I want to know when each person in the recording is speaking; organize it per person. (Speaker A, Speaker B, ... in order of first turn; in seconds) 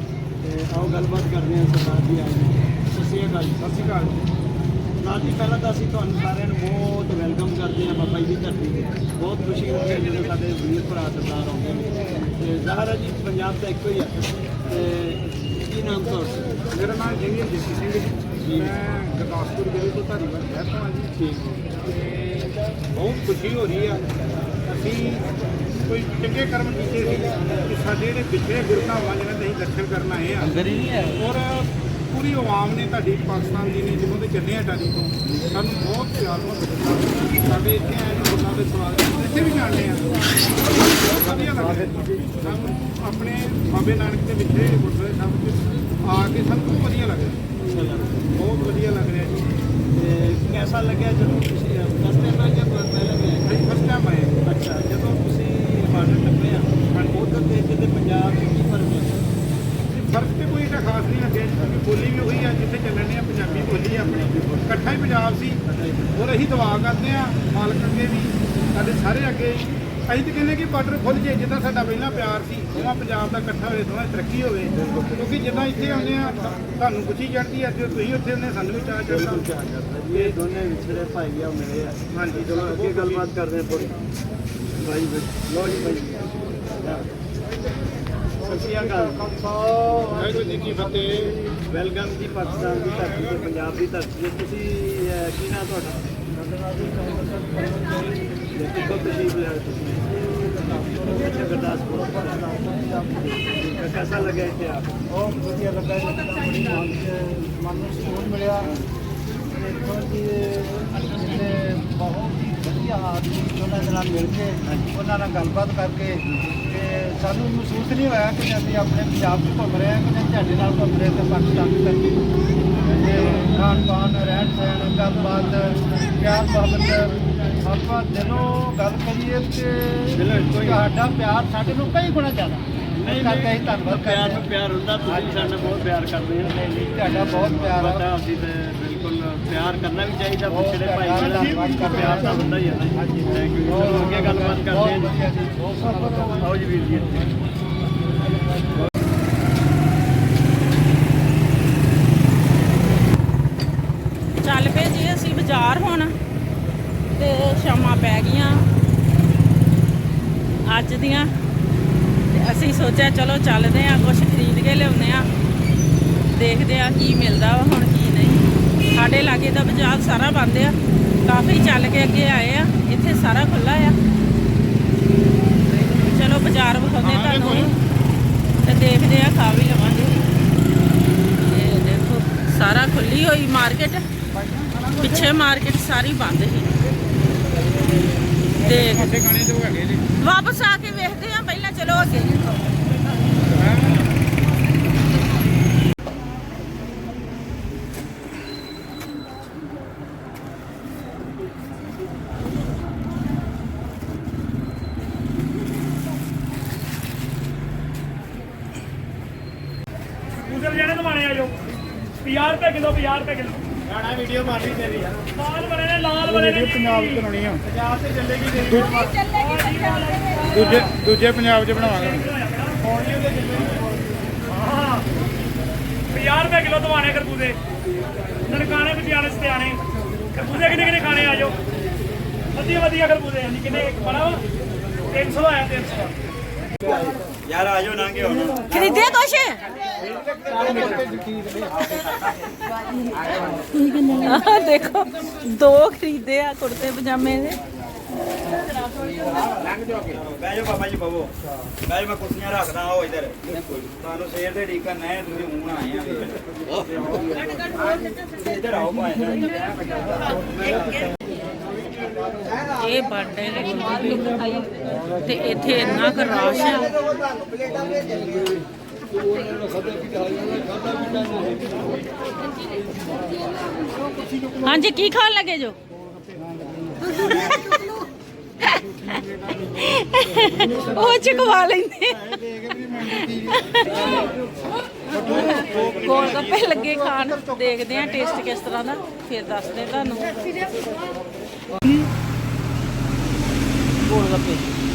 Speaker A: 0.4-3.6, 5.0-16.5, 18.4-18.7, 21.2-21.7, 30.7-31.0, 47.6-48.3, 49.9-53.5, 54.5-59.3, 63.5-65.0, 65.6-66.2, 79.1-84.0, 84.8-87.1, 88.4-89.3, 91.7-96.1, 98.5-104.9, 123.0-123.5, 130.1-130.9, 133.0-145.2, 146.3-147.3, 217.9-218.5, 271.0-271.4
Speaker B: 3.6-4.3, 16.7-21.1, 22.9-24.1, 24.7-25.3, 25.9-47.5, 48.3-49.5, 53.5-54.5, 59.8-65.6, 66.2-79.5, 82.1-83.3, 90.1-91.4, 177.0-177.7, 184.4-185.0, 188.6-190.1, 193.4-194.0, 216.2-217.7, 218.5-219.1, 220.5-222.2
Speaker C: 88.8-91.3, 96.3-98.0, 105.1-108.7, 109.5-122.2, 122.8-134.4, 135.1-135.6, 136.5-138.1, 140.5-146.4, 285.2-286.6, 287.1-287.4
Speaker D: 154.4-156.1, 157.2-158.7, 160.7-161.3, 162.3-165.3, 166.3-173.9, 175.7-177.7, 178.7-180.2, 181.4-184.1, 185.0-186.7, 188.6-189.1, 190.2-192.6, 218.7-220.8, 238.7-239.6, 243.0-247.6, 262.8-267.0, 274.6-275.8, 277.1-278.0, 278.6-284.3, 285.1-290.5, 294.1-294.6
Speaker E: 210.4-211.5, 212.2-213.7, 215.3-217.2, 219.4-220.2, 221.9-223.0, 224.5-225.1, 226.1-227.6, 228.5-229.8, 230.3-231.6, 232.5-234.4, 235.1-236.1
Speaker F: 237.4-238.7, 249.9-257.5, 258.4-259.6